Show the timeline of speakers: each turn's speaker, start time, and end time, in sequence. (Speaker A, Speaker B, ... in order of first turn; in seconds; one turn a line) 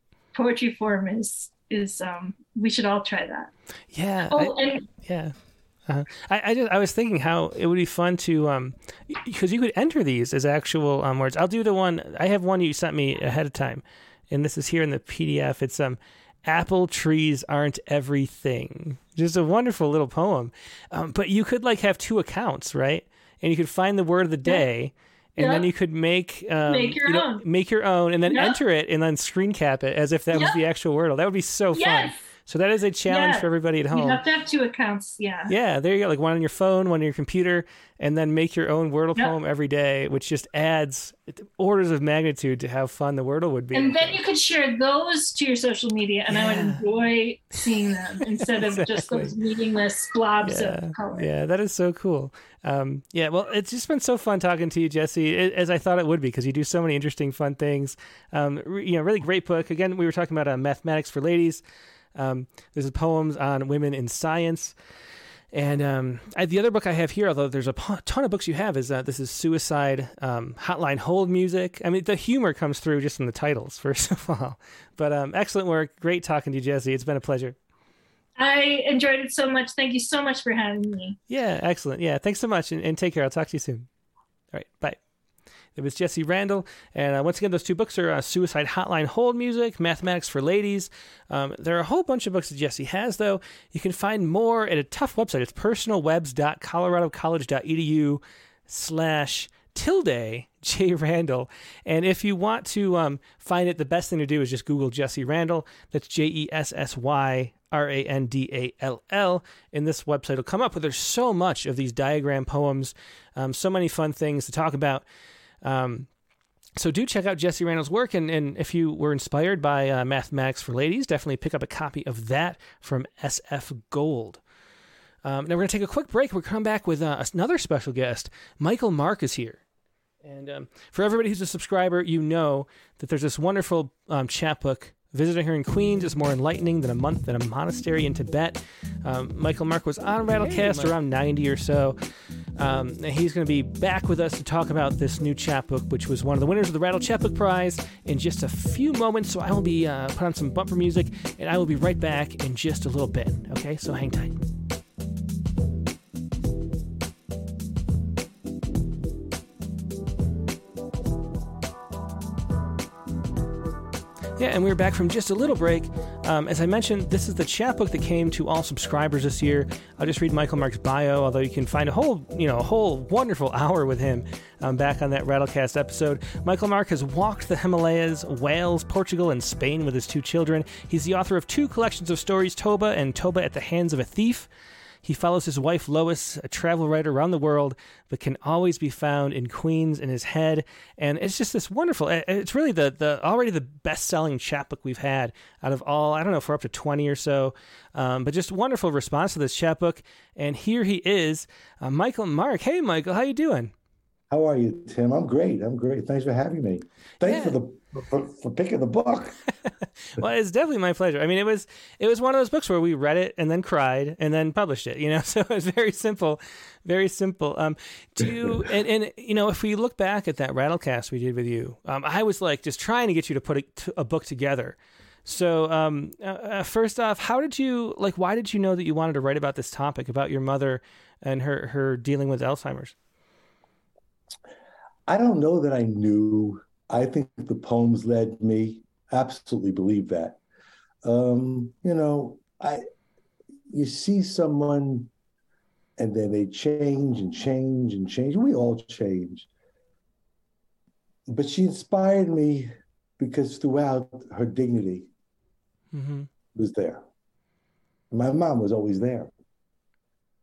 Speaker A: 0.3-3.5
Speaker B: 3.9-5.3
Speaker A: 4.3-4.8
Speaker B: 5.8-34.2
Speaker A: 25.4-25.7
Speaker A: 26.7-27.4
Speaker A: 28.3-28.6
Speaker A: 30.3-30.6
Speaker A: 31.7-32.2
Speaker A: 33.1-35.5
Speaker B: 35.5-44.2
Speaker A: 43.7-51.3
Speaker B: 46.3-46.8
Speaker B: 48.4-49.3
Speaker B: 50.4-61.6
Speaker B: 62.1-64.7
Speaker B: 65.5-77.5
Speaker A: 78.4-81.2
Speaker B: 81.3-83.9
Speaker B: 84.5-85.0
Speaker B: 85.7-115.0
Speaker B: 115.6-116.1
Speaker B: 116.8-124.4
Speaker B: 125.2-129.6
Speaker B: 130.2-142.0
Speaker C: 140.4-140.9
Speaker B: 142.6-154.4
Speaker B: 164.4-184.5
Speaker B: 185.0-203.7
Speaker C: 204.3-209.4
Speaker B: 207.2-207.6
Speaker B: 210.2-232.9
Speaker C: 235.1-240.4
Speaker C: 241.0-242.8
Speaker C: 243.7-245.1
Speaker C: 246.0-249.5
Speaker C: 251.3-255.1
Speaker B: 255.9-256.3
Speaker C: 256.5-257.0
Speaker C: 258.1-259.3